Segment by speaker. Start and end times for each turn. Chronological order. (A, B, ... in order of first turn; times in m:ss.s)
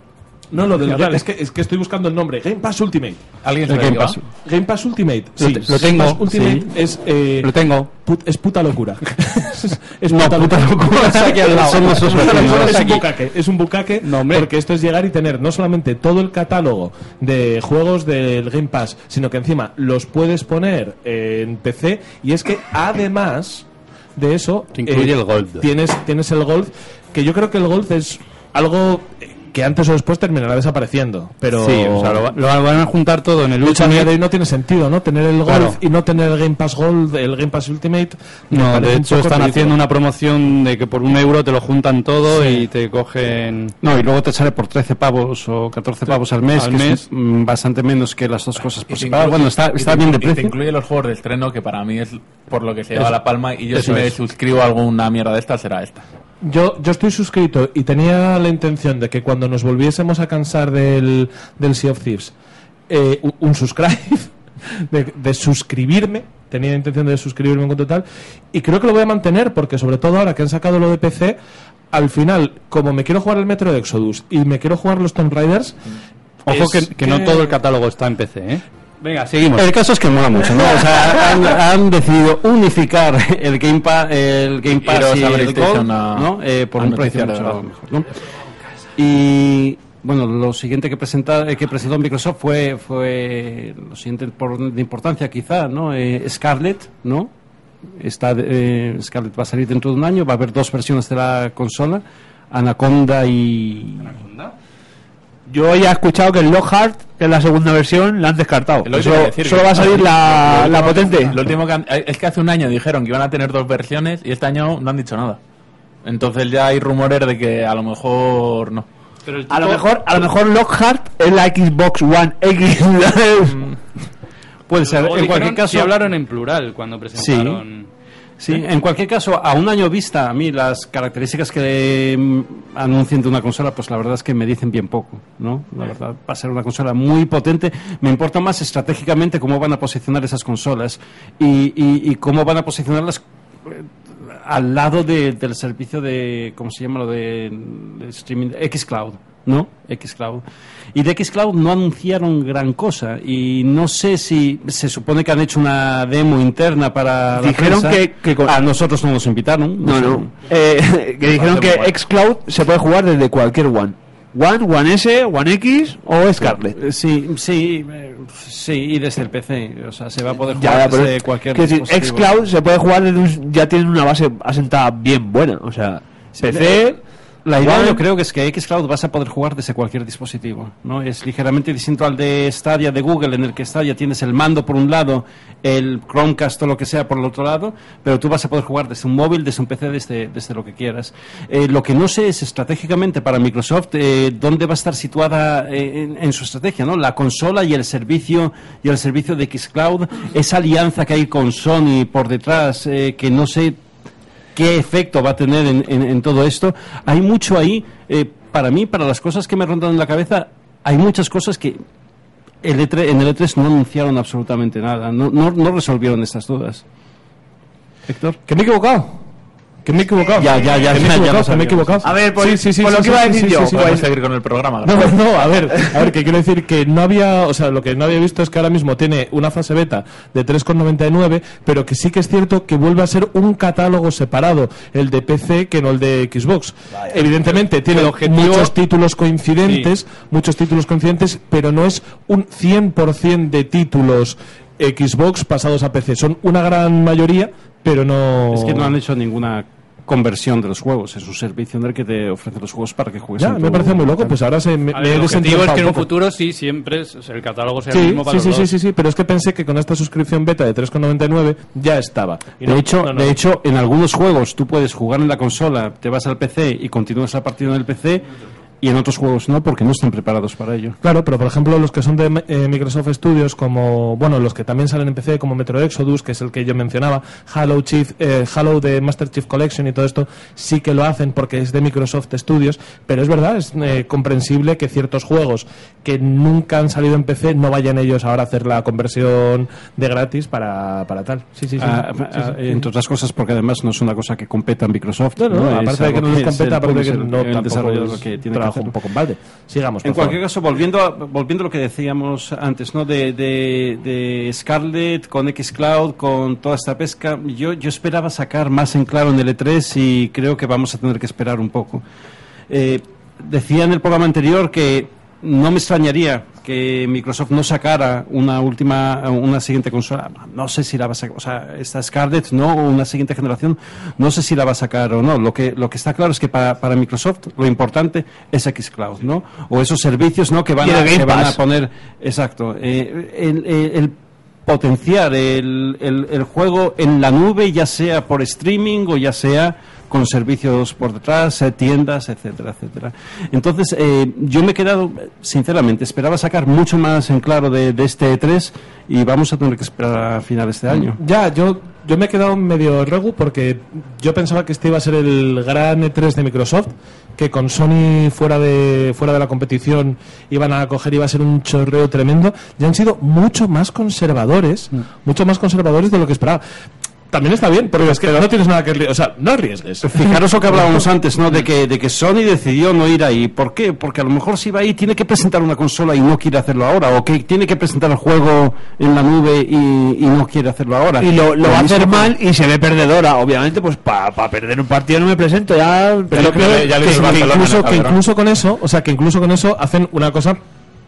0:00.5-0:03.2 A
0:00.8-0:01.2 B
0:03.4-0:04.2 C
0:03.7-0:04.2 D
0:04.4-0:32.3 A
0:05.4-0:06.7 B
0:07.4-0:07.9 B
0:10.1-0:13.0 D
0:11.0-0:13.0 B
0:14.0-0:14.5 B
0:24.7-0:25.7 B
0:31.6-0:34.1 B
0:33.6-0:39.8 A
0:35.5-0:35.8 B
0:38.5-0:43.7 B
0:42.3-0:42.6 D
0:43.8-0:50.6 D
0:46.5-0:47.0 B
0:48.9-0:56.0 C
0:53.7-0:54.1 B
0:56.4-1:02.3 A
1:02.9-1:11.4 A
1:11.9-1:15.8 A
1:16.4-1:19.7 B
1:16.5-1:17.5 A
1:19.4-1:28.2 D
1:24.8-1:27.6 C
1:29.0-1:37.3 D
1:38.0-1:44.1 D
1:44.1-1:44.5 B
1:45.5-1:51.4 E
1:48.8-1:55.4 C
1:56.0-1:58.8 C
1:59.2-1:59.9 B
1:59.5-2:03.8 E
2:04.7-2:06.0 D
2:04.8-2:07.9 B
2:07.1-2:07.6 D
2:08.4-2:40.3 D
2:37.4-2:38.6 E
2:39.8-2:46.8 E
2:41.4-2:41.8 C
2:46.4-2:52.3 D
2:50.5-2:57.0 E
2:56.4-2:56.9 D
2:57.4-3:23.8 D
2:57.6-2:58.0 E
3:24.5-3:31.8 D
3:32.6-3:36.8 D
3:38.1-3:38.4 D
3:38.5-3:39.2 A
3:39.8-3:44.0 A
3:40.4-3:42.1 D
3:42.0-3:44.0 E
3:43.7-3:45.4 C
3:44.8-4:09.0 A
3:57.9-3:58.7 B
4:08.5-4:14.3 D
4:13.4-4:16.1 A
4:14.9-4:18.7 B
4:17.9-4:23.4 A
4:22.6-4:28.3 D
4:28.8-4:31.0 D
4:31.0-4:52.9 A
4:51.8-4:58.9 D
4:55.4-5:00.4 A
5:00.0-5:12.0 D
5:12.7-5:34.1 D
5:30.8-5:31.6 E
5:34.6-5:51.2 D
5:51.2-6:06.6 A
6:07.3-6:11.1 A
6:10.0-6:22.3 D
6:21.2-6:27.2 E
6:26.3-6:28.2 C
6:26.3-6:30.6 A